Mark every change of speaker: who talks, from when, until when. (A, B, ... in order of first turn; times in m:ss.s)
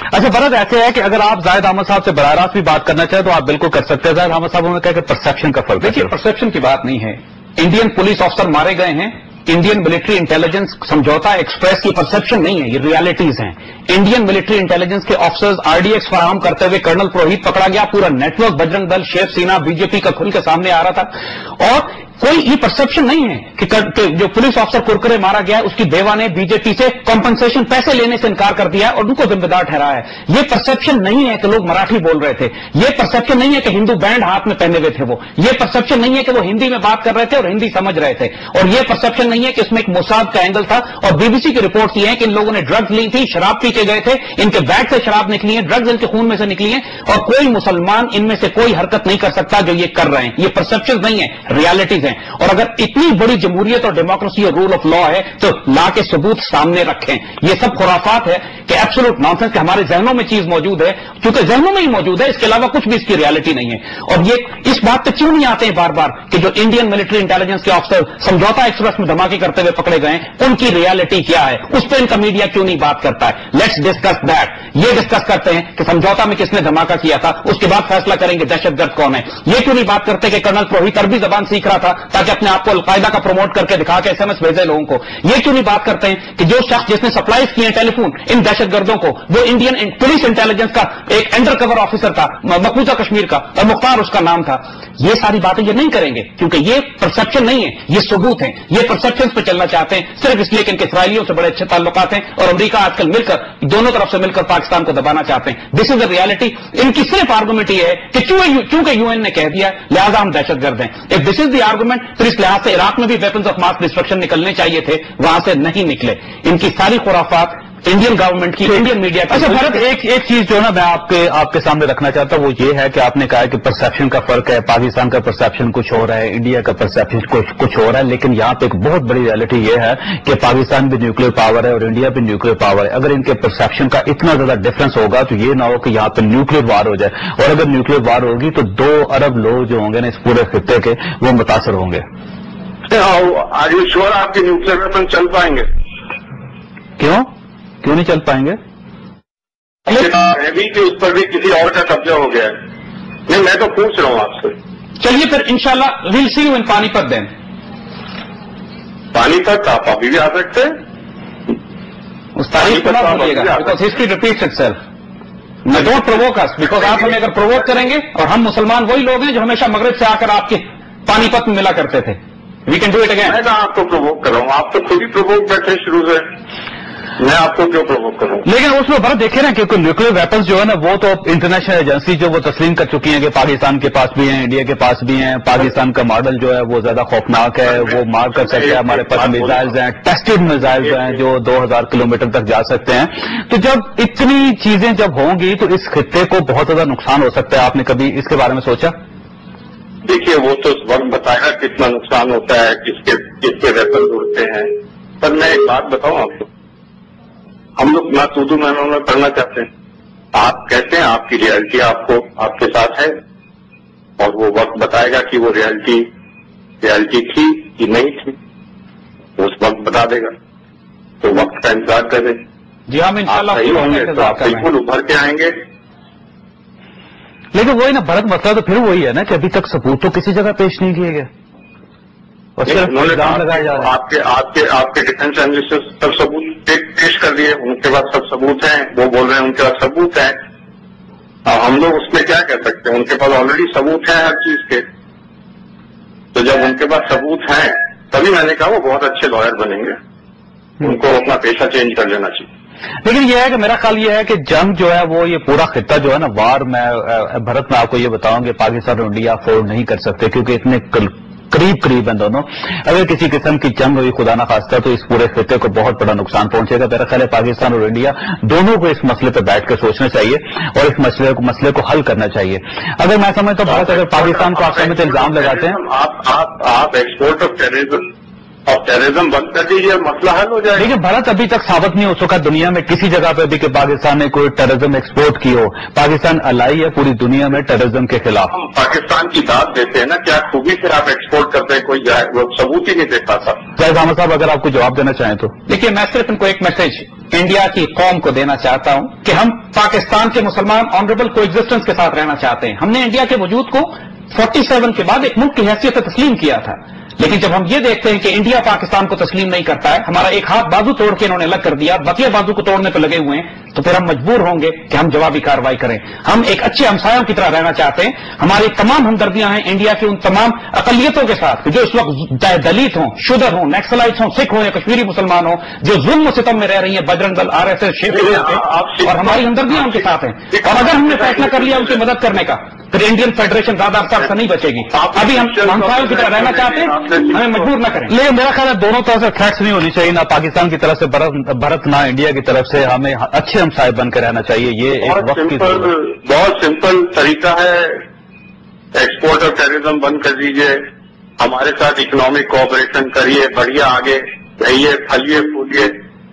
0:00.1-0:06.1 A
0:05.8-1:59.8 B
1:59.3-2:22.0 A
2:22.9-2:25.7 C
2:27.0-2:27.3 A
2:27.8-2:28.6 A
2:29.9-2:32.6 C
2:33.3-2:34.6 C
2:35.0-2:37.3 B
2:39.1-2:40.8 C
2:42.4-2:44.8 B
2:42.6-2:43.8 C
2:45.6-2:53.4 B
2:53.2-2:56.3 C
2:57.2-2:58.5 C
2:58.4-3:19.0 A
3:07.6-3:09.7 C
3:20.0-3:26.5 C
3:27.8-3:29.7 C
3:30.3-3:33.2 C
3:34.2-3:36.1 C
3:36.8-3:38.4 C
3:39.4-3:40.3 C
3:41.2-3:42.4 C
3:42.9-3:44.7 B
3:43.3-3:45.6 C
3:47.5-3:51.3 A
3:52.6-3:53.9 A
3:52.7-4:00.4 C
4:01.4-4:04.8 C
4:06.3-4:10.0 C
4:10.8-4:12.5 C
4:13.0-4:35.8 A
4:33.7-4:38.1 C
4:38.7-4:40.9 C
4:40.8-4:48.5 A
4:48.5-4:53.6 C
4:53.8-4:55.6 A
4:55.7-5:38.1 B
5:28.1-5:30.0 C
5:30.5-5:31.9 C
5:34.9-5:37.7 C
5:38.1-5:45.9 A
5:45.0-5:48.0 C
5:48.9-5:50.9 C
5:51.4-5:56.0 C